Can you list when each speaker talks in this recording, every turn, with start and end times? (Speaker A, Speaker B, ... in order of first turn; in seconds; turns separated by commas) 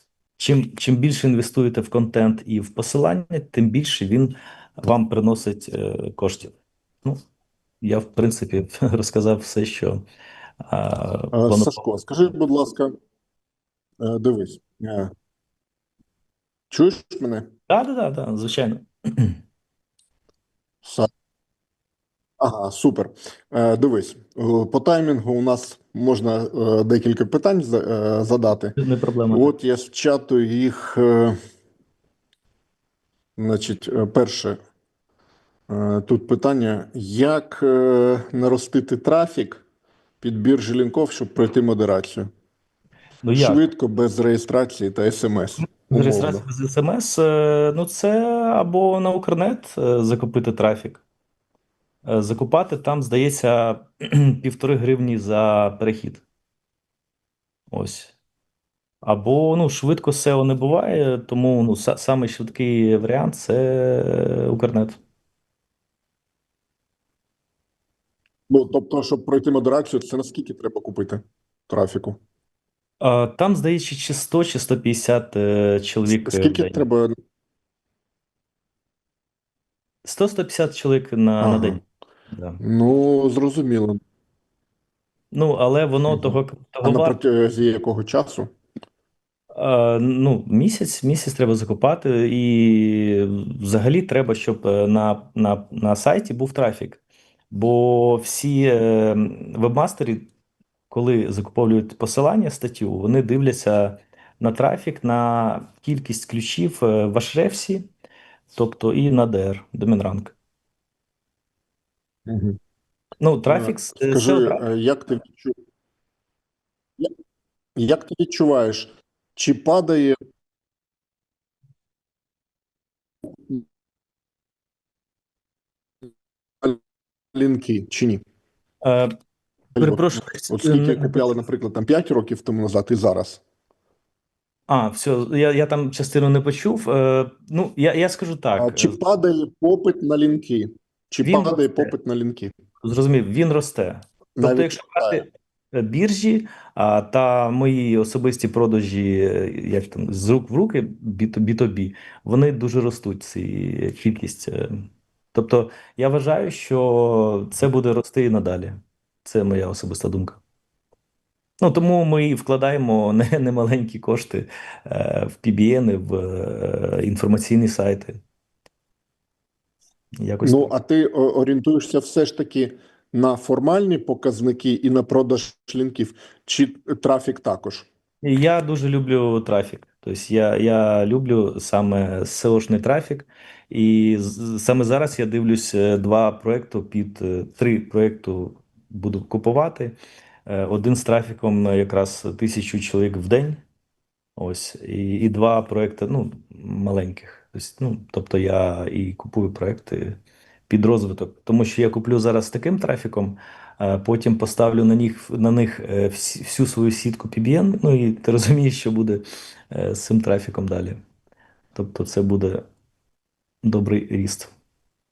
Speaker A: 0.4-6.5, Speaker A: 7.8-10.1, Speaker A: 10.6-12.3, Speaker B: 11.3-12.9, Speaker B: 14.0-15.1, Speaker B: 16.7-17.5, Speaker A: 17.7-19.4, Speaker B: 20.8-21.1, Speaker B: 22.4-28.8, Speaker A: 28.8-29.5, Speaker B: 29.3-31.4, Speaker B: 33.4-34.6, Speaker B: 35.7-39.6, Speaker B: 40.2-42.3, Speaker A: 43.2-43.7, Speaker B: 43.4-46.4, Speaker A: 45.6-51.0, Speaker A: 52.0-56.2, Speaker A: 57.7-58.1, Speaker A: 59.0-65.0, Speaker B: 68.5-72.2, Speaker A: 73.0-76.8, Speaker B: 76.1-77.1, Speaker A: 80.0-82.6, Speaker B: 81.4-81.8, Speaker B: 82.6-84.0, Speaker A: 85.3-87.2, Speaker B: 86.1-88.5, Speaker A: 89.5-97.0, Speaker A: 97.5-100.3, Speaker A: 100.9-107.9, Speaker A: 108.5-110.4, Speaker B: 112.3-112.6, Speaker A: 113.2-114.6, Speaker B: 113.5-115.5, Speaker B: 117.8-120.2, Speaker B: 127.3-128.2, Speaker A: 128.8-129.1, Speaker B: 129.8-133.4, Speaker A: 129.8-131.3, Speaker A: 134.7-139.0, Speaker B: 138.6-142.5, Speaker A: 141.2-141.9, Speaker A: 142.8-160.4, Speaker B: 144.4-145.3, Speaker A: 161.6-168.2, Speaker A: 170.2-170.7, Speaker B: 170.4-177.9, Speaker A: 178.2-193.6, Speaker A: 194.4-211.0, Speaker A: 211.8-212.7, Speaker A: 213.6-214.5